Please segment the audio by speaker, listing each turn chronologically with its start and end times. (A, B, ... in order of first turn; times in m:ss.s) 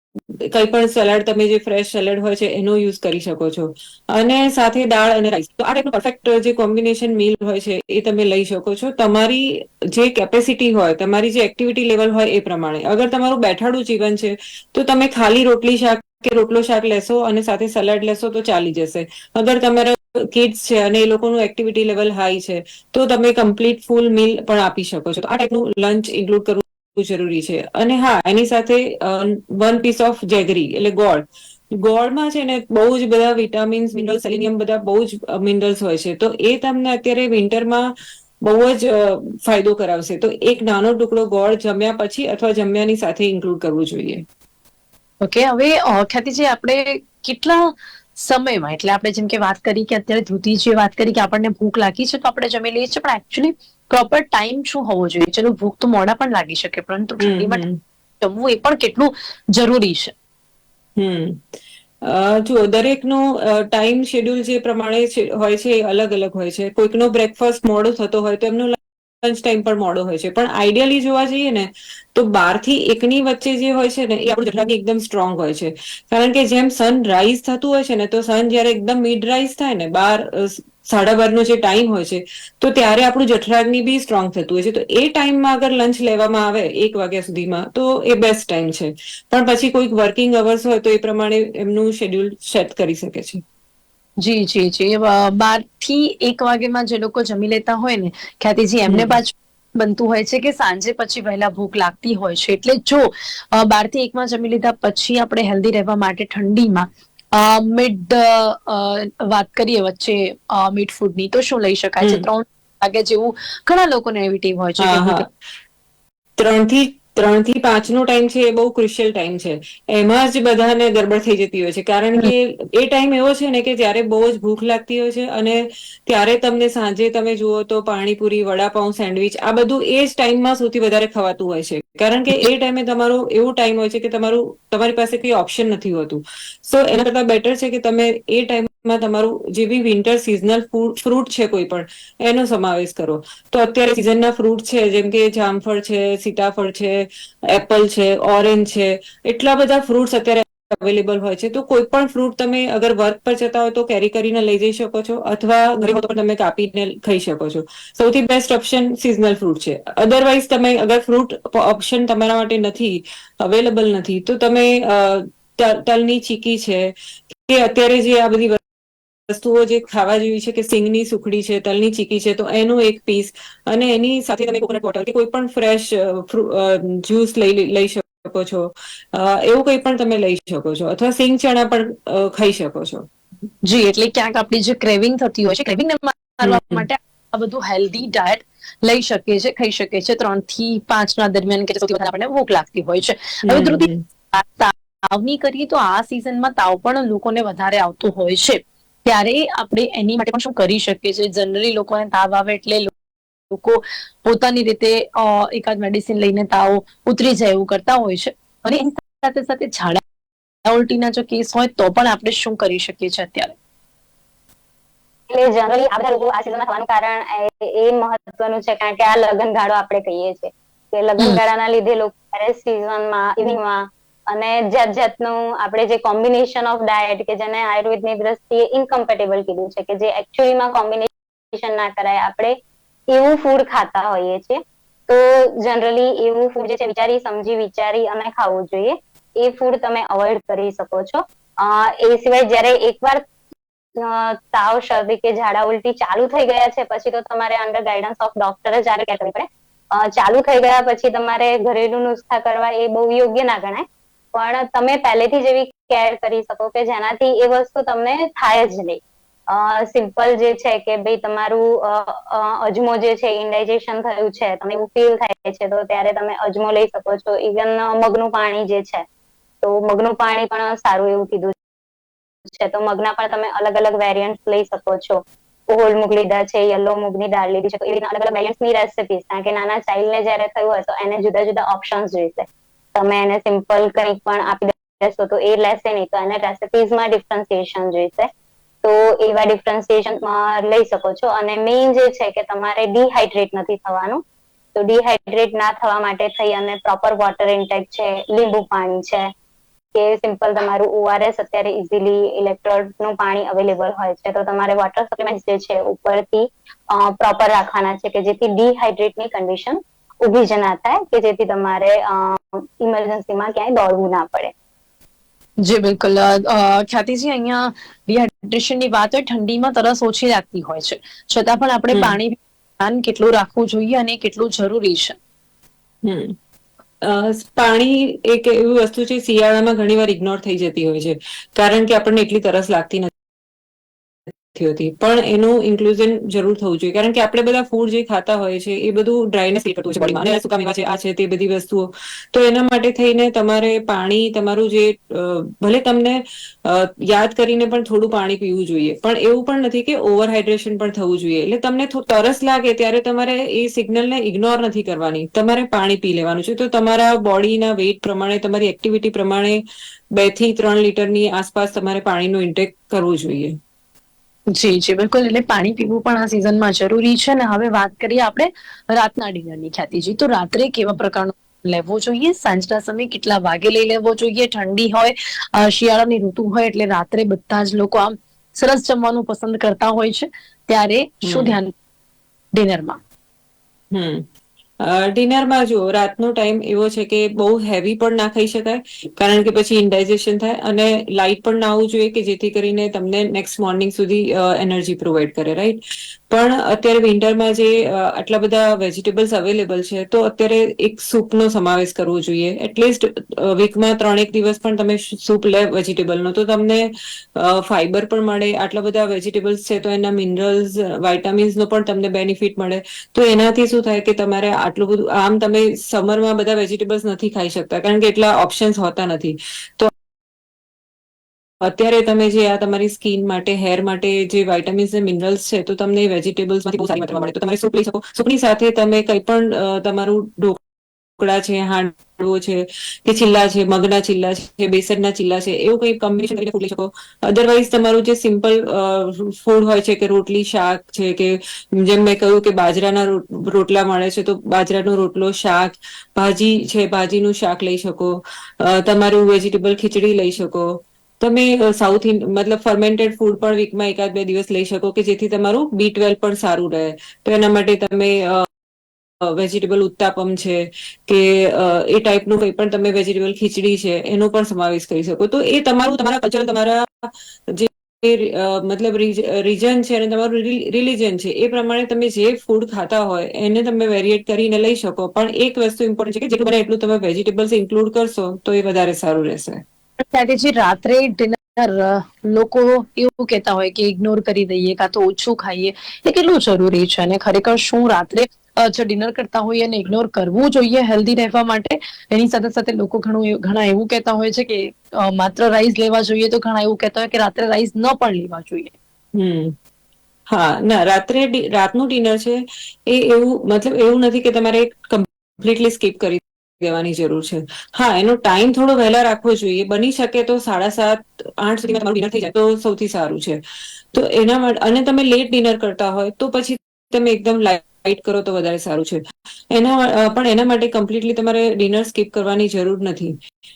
0:00.5-0:37.9 A
0:38.4-0:44.2 A
0:45.2-0:57.6 B
0:57.2-0:57.8 A
0:58.2-1:00.1 B
1:01.0-1:01.4 A
1:02.0-1:33.4 A
1:34.2-1:55.3 B
1:38.9-1:39.2 A
1:52.0-1:52.3 A
1:54.8-1:55.3 A
1:56.4-2:48.6 A
2:49.3-3:03.1 A
3:03.6-3:23.0 B
3:06.4-3:06.8 A
3:13.5-3:14.0 A
3:23.5-3:30.0 B
3:30.6-3:33.5 B
3:35.3-3:52.6 C
3:53.1-4:03.2 C
4:04.0-4:29.0 C
4:29.6-4:31.6 C
4:32.5-4:48.3 C
4:48.8-4:54.2 C
4:54.8-4:59.3 C
4:59.9-5:14.5 C
5:15.6-5:25.2 B
5:21.9-5:22.2 A
5:26.0-5:26.4 A
5:27.0-5:33.1 A
5:34.5-5:59.6 A
6:00.1-6:03.6 A
6:04.5-6:21.7 B
6:21.3-6:21.6 A
6:22.5-6:23.0 B
6:23.9-6:24.3 A
6:24.8-6:35.8 A
6:36.3-6:59.9 A
7:01.6-7:10.6 A
7:11.2-7:38.5 A
7:39.2-7:59.6 A
8:00.0-8:18.7 B
8:19.2-8:19.6 A
8:20.3-8:33.4 A
8:33.9-8:43.2 A